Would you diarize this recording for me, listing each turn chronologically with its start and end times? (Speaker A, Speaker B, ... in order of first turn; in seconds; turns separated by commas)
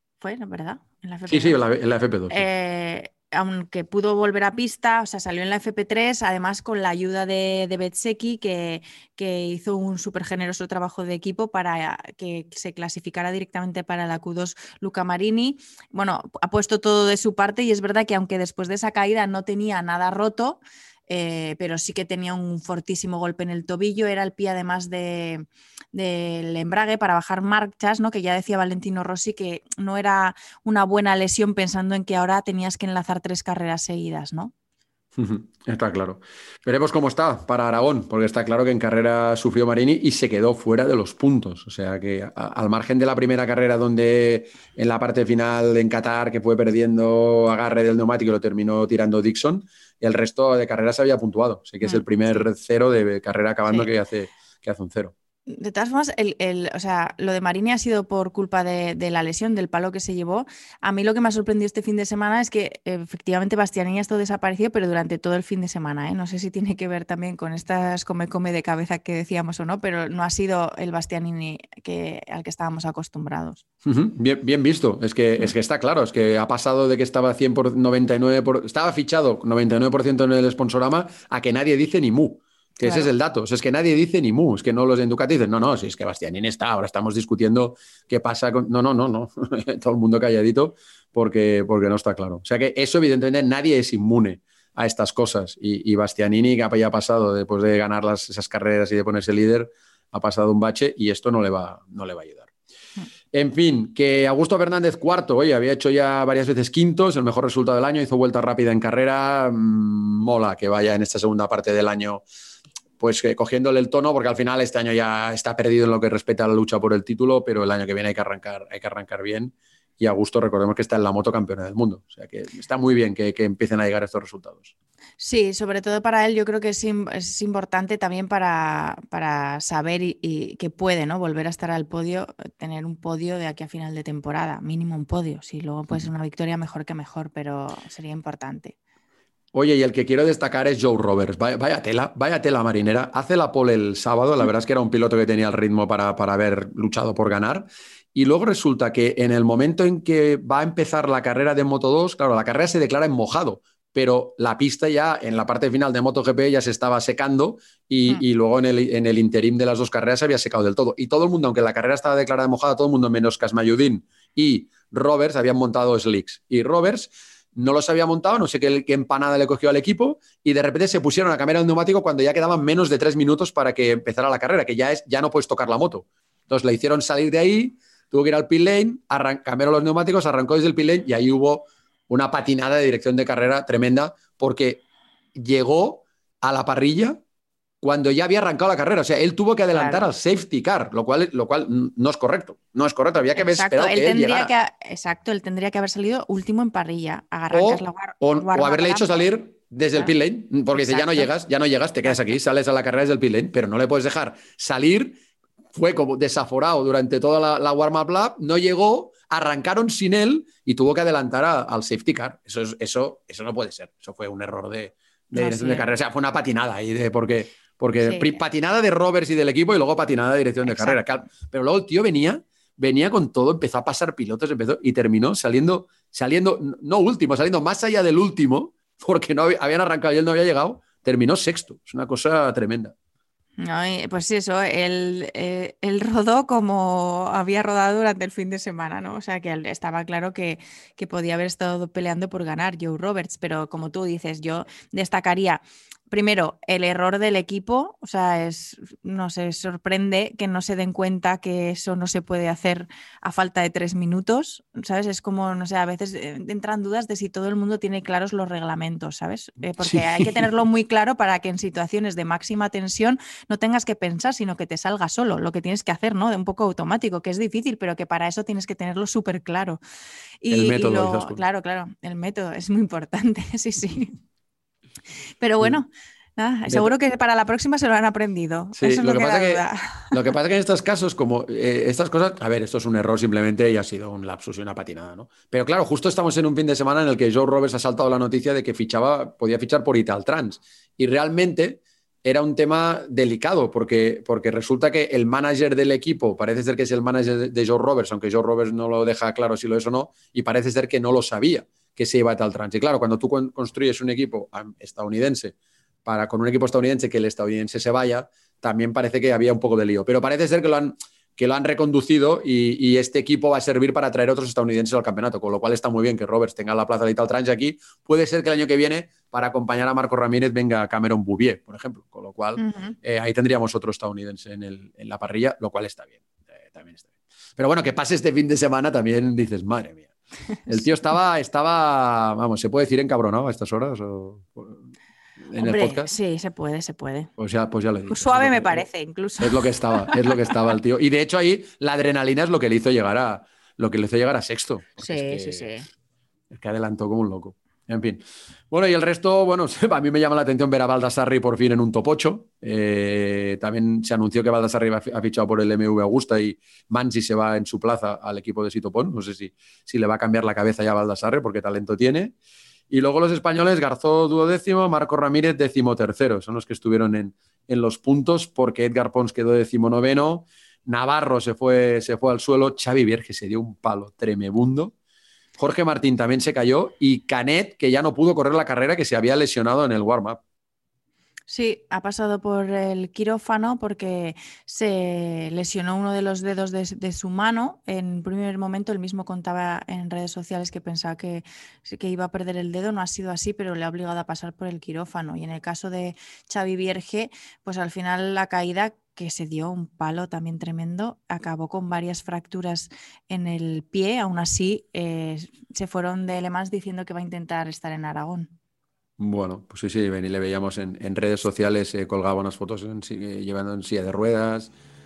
Speaker A: 0.2-1.6, Speaker B: 1.3-2.5, Speaker A: 2.3-34.5, Speaker B: 35.1-55.1, Speaker A: 55.5-73.6, Speaker B: 73.8-102.5, Speaker A: 82.8-83.1, Speaker B: 103.3-112.2, Speaker B: 113.0-124.7, Speaker A: 125.2-138.8, Speaker B: 139.5-184.8, Speaker B: 185.3-187.2, Speaker B: 187.8-194.5, Speaker A: 189.7-190.0, Speaker A: 193.3-199.2, Speaker B: 197.5-205.2, Speaker A: 200.7-201.3, Speaker A: 202.0-202.3, Speaker B: 205.7-232.9, Speaker A: 215.3-215.8, Speaker A: 218.0-218.4, Speaker A: 220.6-221.1, Speaker A: 233.6-269.8, Speaker B: 259.8-260.4, Speaker A: 270.4-274.1, Speaker B: 270.5-271.4, Speaker A: 275.4-280.2, Speaker B: 278.8-305.5, Speaker B: 306.1-330.1, Speaker A: 322.6-322.9, Speaker B: 330.7-334.8, Speaker B: 335.4-336.1, Speaker A: 335.6-337.3, Speaker B: 337.4-338.9, Speaker A: 338.1-340.3, Speaker B: 339.4-345.7, Speaker A: 345.0-345.9, Speaker B: 346.5-362.3, Speaker B: 362.9-374.9, Speaker B: 375.6-380.4, Speaker A: 381.5-408.5, Speaker B: 409.2-414.7